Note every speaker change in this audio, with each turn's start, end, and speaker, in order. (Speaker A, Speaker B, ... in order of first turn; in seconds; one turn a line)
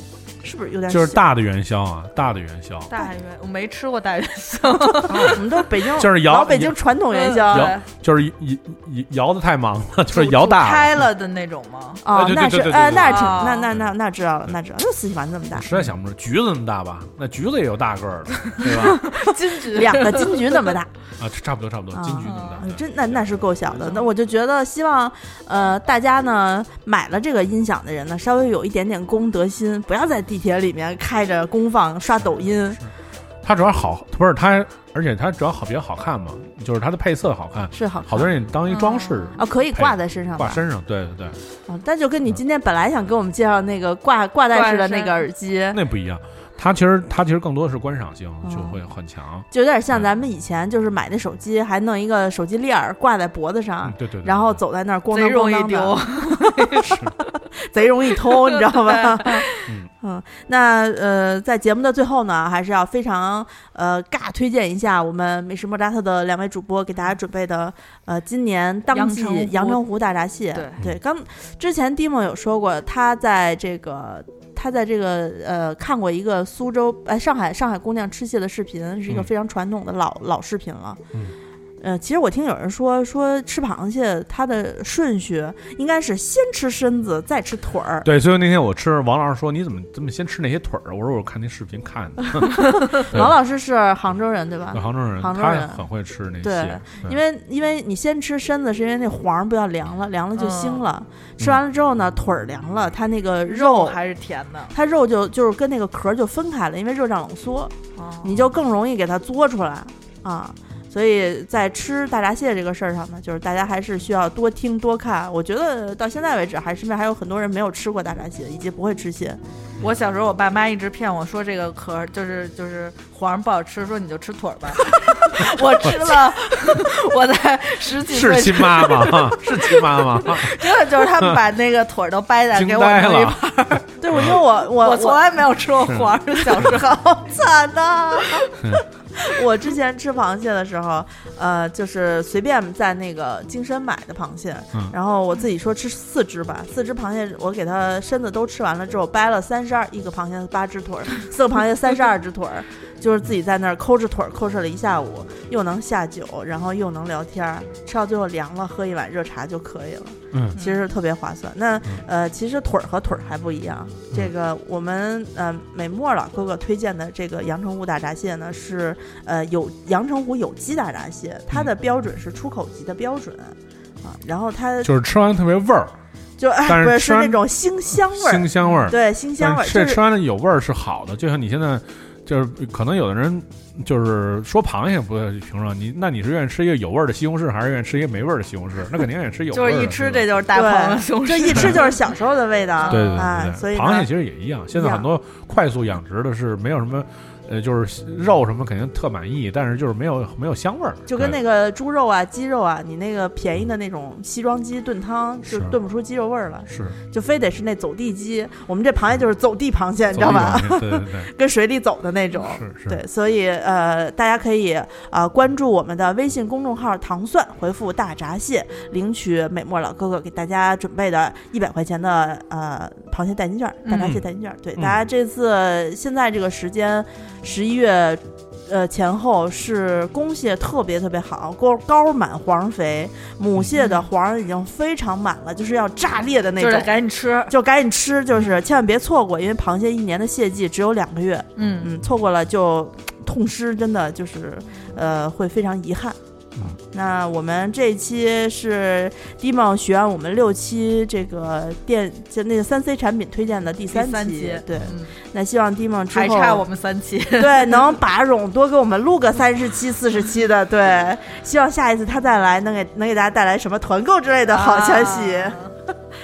Speaker A: 0.4-1.2
Speaker B: 0.9-2.9
Speaker C: 2.9-5.4
Speaker B: 5.1-6.8
Speaker A: 5.1-7.8
Speaker C: 7.1-7.9
Speaker B: 7.5-10.9
Speaker C: 10.1-12.0
Speaker A: 12.0-15.7
Speaker B: 12.1-13.9
Speaker C: 13.0-13.7
Speaker B: 15.5-19.0
Speaker C: 18.9-20.6
Speaker A: 19.6-20.9
Speaker B: 21.2-24.0
Speaker A: 21.9-32.8
Speaker C: 22.2-22.6
Speaker B: 32.7-41.4
Speaker A: 37.7-38.3
Speaker C: 38.7-39.4
Speaker A: 39.4-40.6
Speaker A: 41.7-45.8
Speaker C: 44.5-45.2
Speaker B: 45.7-50.1
Speaker A: 48.4-48.8
Speaker A: 49.5-57.0
Speaker B: 53.8-54.6
Speaker C: 55.1-57.0
Speaker B: 56.9-57.1
Speaker A: 57.6-59.5
Speaker C: 58.3-59.6
Speaker B: 59.7-59.9
Speaker A: 60.0-81.0
Speaker C: 68.9-69.8
Speaker C: 70.5-70.8
Speaker A: 81.8-88.1
Speaker B: 88.0-93.3
Speaker A: 92.8-95.9
Speaker B: 94.7-97.2
Speaker A: 96.4-104.0
Speaker C: 100.3-100.8
Speaker C: 103.5-104.7
Speaker A: 104.7-119.4
Speaker C: 108.0-108.4
Speaker C: 119.8-133.9
Speaker B: 128.1-131.4
Speaker B: 132.5-134.4
Speaker A: 134.0-135.2
Speaker C: 134.7-136.9
Speaker B: 135.8-136.1
Speaker A: 136.4-138.5
Speaker A: 139.2-174.9
Speaker B: 160.3-160.6
Speaker C: 160.6-160.8
Speaker B: 174.8-175.9
Speaker A: 176.4-180.0
Speaker B: 176.7-190.3
Speaker C: 178.6-178.9
Speaker C: 189.5-192.1
Speaker A: 190.5-194.1
Speaker B: 191.5-191.8
Speaker C: 192.8-193.2
Speaker B: 192.9-201.4
Speaker A: 194.7-195.1
Speaker A: 201.1-236.9
Speaker B: 205.5-205.8
Speaker B: 206.7-207.0
Speaker B: 210.1-211.3
Speaker B: 212.5-213.0
Speaker B: 223.9-224.2
Speaker B: 224.8-225.0
Speaker C: 233.8-234.1
Speaker C: 236.6-237.5
Speaker A: 237.5-246.2
Speaker C: 241.6-241.9
Speaker A: 246.8-256.7
Speaker C: 253.9-255.2
Speaker C: 256.1-258.0
Speaker A: 257.4-265.6
Speaker C: 264.5-265.8